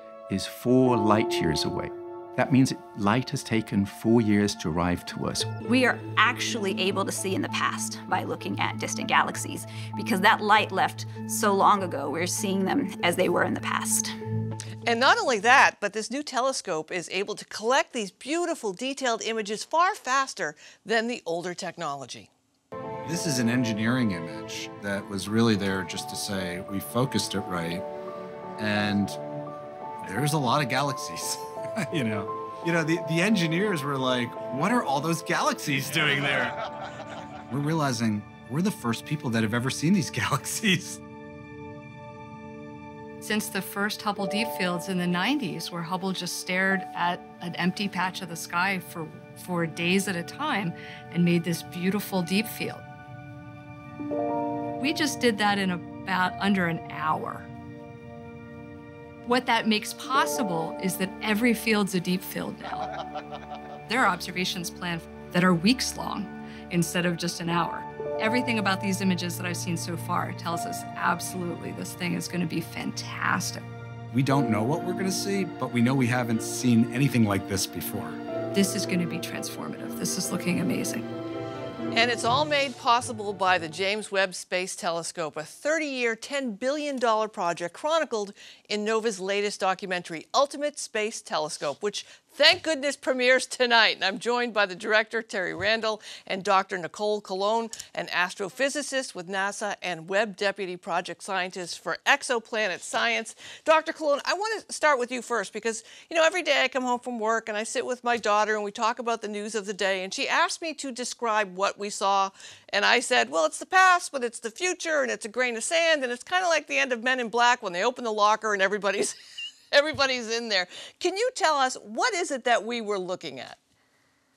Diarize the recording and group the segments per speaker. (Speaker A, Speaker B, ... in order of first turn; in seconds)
Speaker A: 0.3-5.5
Speaker B: 5.6-14.1
Speaker C: 14.8-22.3, 81.9-119.2, 119.7-123.6
Speaker D: 23.0-27.9, 28.6-29.2, 30.0-36.6, 37.5-41.0, 74.1-78.2
Speaker E: 43.2-52.8, 54.8-57.5, 59.2-62.9, 63.9-73.7, 78.5-81.0